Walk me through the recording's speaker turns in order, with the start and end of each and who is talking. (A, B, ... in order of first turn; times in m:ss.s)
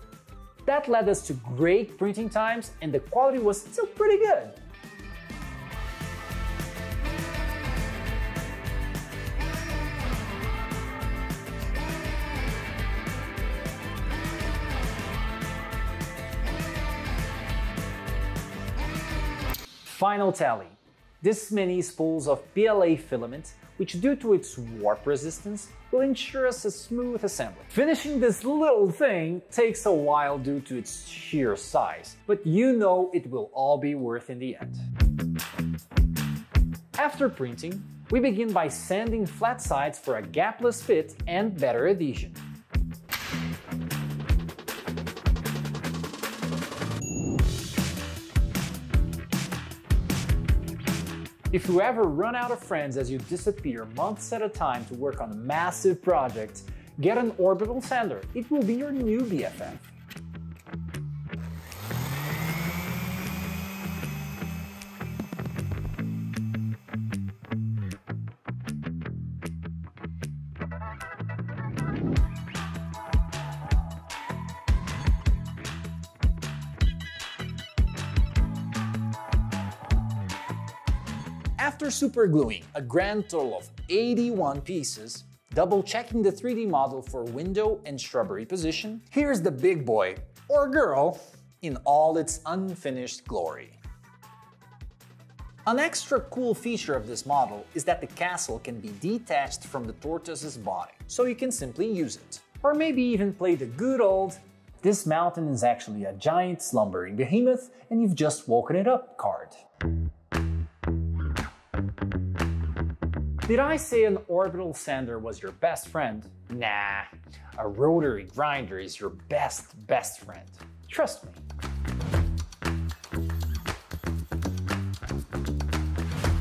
0:00.7-0:04.6 A
0:19.8-0:34.8 A
0:37.0-0:42.4 A
0:51.5-0:59.9 A
1:21.6-1:33.8 A
1:35.7-1:49.6 A
1:53.5-2:01.4 A